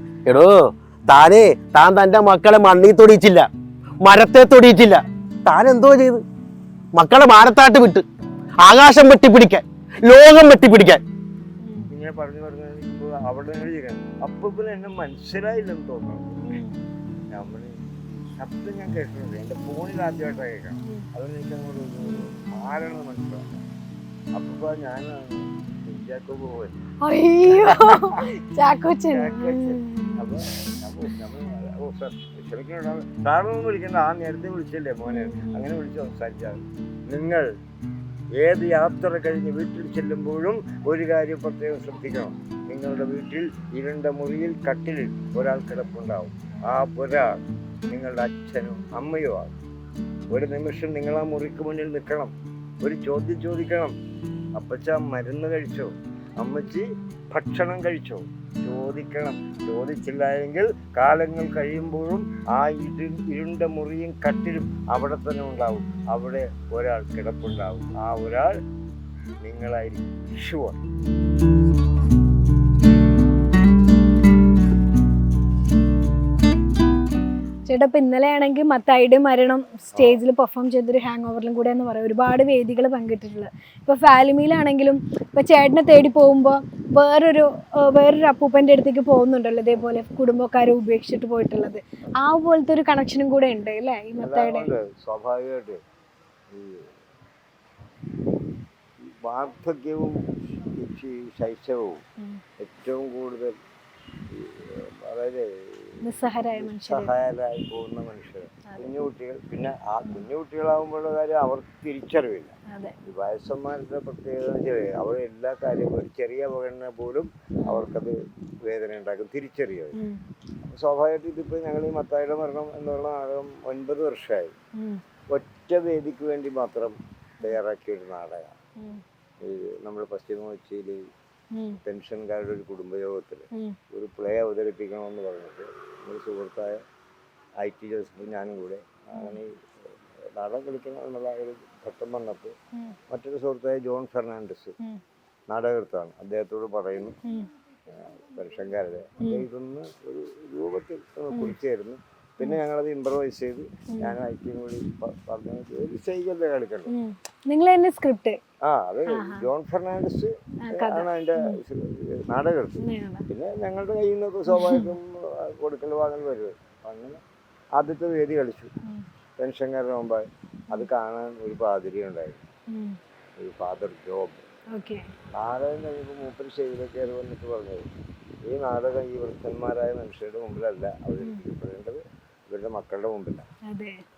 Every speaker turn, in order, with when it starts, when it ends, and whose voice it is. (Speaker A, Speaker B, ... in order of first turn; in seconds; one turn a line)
Speaker A: 0.3-3.5
Speaker A: 4.0-6.2
Speaker A: 7.0-8.0
Speaker A: 8.6-11.0
Speaker B: 11.6-11.9
Speaker C: 11.9-16.6
Speaker B: 16.5-16.8
Speaker C: 17.3-23.6
Speaker C: 24.4-26.9
Speaker B: 27.1-30.3
Speaker C: 27.5-28.2
Speaker C: 29.1-37.5
Speaker B: 35.1-35.7
Speaker C: 38.4-49.5
Speaker C: 50.3-54.0
Speaker C: 54.6-68.6
Speaker C: 69.4-70.8
Speaker B: 77.7-94.7
Speaker C: 79.9-80.2
Speaker C: 94.2-95.8
Speaker C: 96.5-96.9
Speaker C: 99.0-100.2
Speaker C: 100.8-102.0
Speaker C: 102.6-103.6
Speaker C: 104.3-120.0
Speaker B: 106.0-107.1
Speaker B: 112.7-113.0
Speaker B: 119.9-120.2
Speaker C: 120.6-124.5
Speaker B: 124.8-125.0
Speaker C: 125.3-128.6
Speaker C: 129.4-131.0
Speaker B: 131.5-131.8
Speaker C: 131.8-136.8
Speaker C: 137.6-139.6
Speaker B: 139.2-139.4
Speaker C: 140.4-142.6
Speaker C: 143.1-144.7
Speaker C: 145.5-147.2
Speaker C: 147.9-156.9
Speaker B: 149.2-149.4
Speaker B: 153.9-154.2
Speaker B: 156.9-158.4
Speaker C: 158.6-167.2
Speaker B: 159.1-159.5
Speaker B: 160.6-161.6
Speaker B: 162.8-163.3
Speaker B: 164.5-164.9
Speaker C: 167.8-168.7
Speaker C: 169.4-172.4
Speaker B: 172.7-173.0
Speaker C: 173.4-174.4
Speaker B: 174.8-175.1
Speaker C: 175.3-177.9
Speaker C: 178.5-183.5
Speaker B: 183.7-184.0